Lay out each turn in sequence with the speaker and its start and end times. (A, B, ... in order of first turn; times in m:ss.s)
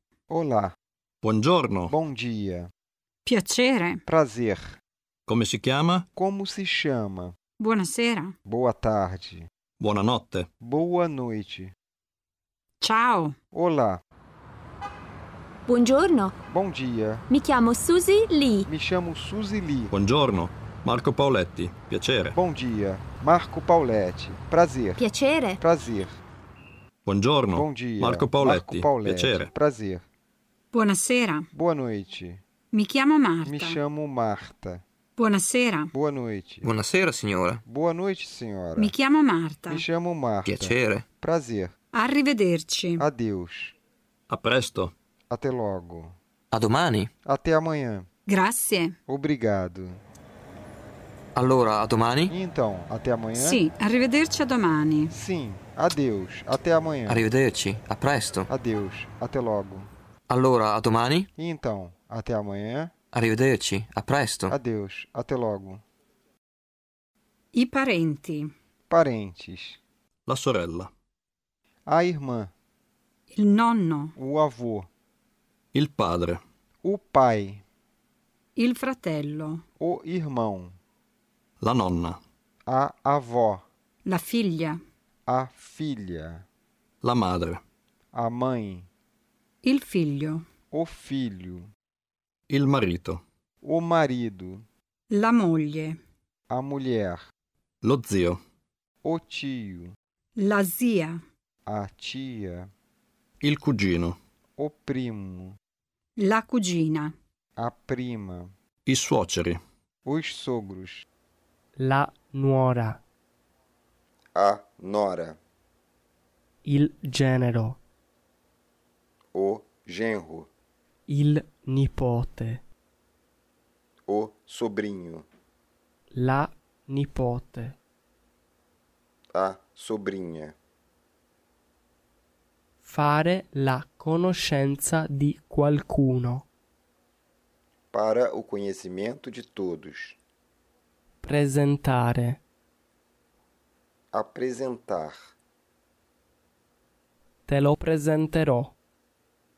0:00.3-0:00.7 A
0:01.2-0:01.9 B
0:01.9-0:02.7 A
0:03.2-0:04.0 C
0:04.0-0:04.8 A
0:05.3-0:06.0 B
0:06.1-0:07.3 A
0:07.6-0:08.3 C
0:08.4-0:09.5 A
0:09.8-0:10.5 B
0:10.6-0:11.7 A
0:12.8-0:13.3 C
0:13.5-0:14.0 A
0:15.6-0:16.4 D
0:16.5-0:17.2 A
0:17.3-0:18.7 D
0:18.7-0:19.9 A
0:19.9-0:22.4 B
0:22.3-0:25.0 A
0:25.0-0:25.6 D
0:25.6-0:26.2 A
0:27.0-0:29.5 B
0:27.5-0:30.1 A
0:30.7-0:31.5 C
0:31.5-0:32.4 A
0:32.7-0:33.8 C
0:33.4-0:34.8 A
0:35.2-0:35.9 C
0:35.9-0:36.8 A
0:36.6-0:37.6 E
0:37.6-0:38.9 A
0:38.8-0:39.8 C
0:39.7-0:41.7 A
0:40.4-0:41.0 E
0:41.9-0:43.0 C
0:43.0-0:43.8 A
0:44.3-0:44.9 B
0:45.3-0:46.2 A
0:46.5-0:47.1 E
0:47.2-0:48.1 A
0:48.3-0:48.9 C
0:49.1-0:50.0 A
0:51.3-0:52.3 E
0:52.3-0:53.6 A
0:53.3-0:55.1 C
0:55.1-0:57.2 A
0:57.1-0:58.5 E
0:58.5-0:59.9 A
1:00.3-1:01.3 E
1:01.4-1:02.9 A
1:03.1-1:04.5 E
1:04.5-1:05.8 A
1:07.5-1:08.5 C
1:08.9-1:09.8 A
1:10.3-1:10.9 B
1:11.8-1:12.5 A
1:13.3-1:14.1 C
1:14.2-1:14.9 A
1:15.7-1:16.4 B
1:16.8-1:17.6 A
1:18.6-1:19.6 C
1:19.8-1:20.8 A
1:21.6-1:22.2 B
1:22.6-1:23.6 A
1:24.0-1:24.8 C
1:25.3-1:26.4 A
1:27.0-1:27.6 B
1:28.1-1:28.9 A
1:29.6-1:30.4 C
1:30.7-1:31.7 A
1:32.5-1:33.2 B
1:33.6-1:34.6 A
1:35.1-1:36.0 C
1:36.5-1:37.2 A
1:37.8-1:38.4 B
1:39.0-1:39.9 A
1:40.4-1:41.2 C
1:41.6-1:42.7 A
1:43.4-1:44.2 B
1:44.6-1:45.6 A
1:46.2-1:47.1 C
1:47.6-1:48.5 A
1:48.8-1:49.6 B
1:50.0-1:51.0 A
1:51.8-1:53.0 F
1:54.3-1:55.4 A
1:56.6-1:57.8 F
1:59.3-2:00.5 A
2:01.1-2:02.6 F
2:04.1-2:05.3 A
2:06.1-2:07.7 F
2:09.3-2:10.6 A
2:12.8-2:16.4 F
2:17.9-2:20.2 A
2:21.2-2:22.4 F
2:24.1-2:25.3 A
2:27.5-2:28.7 F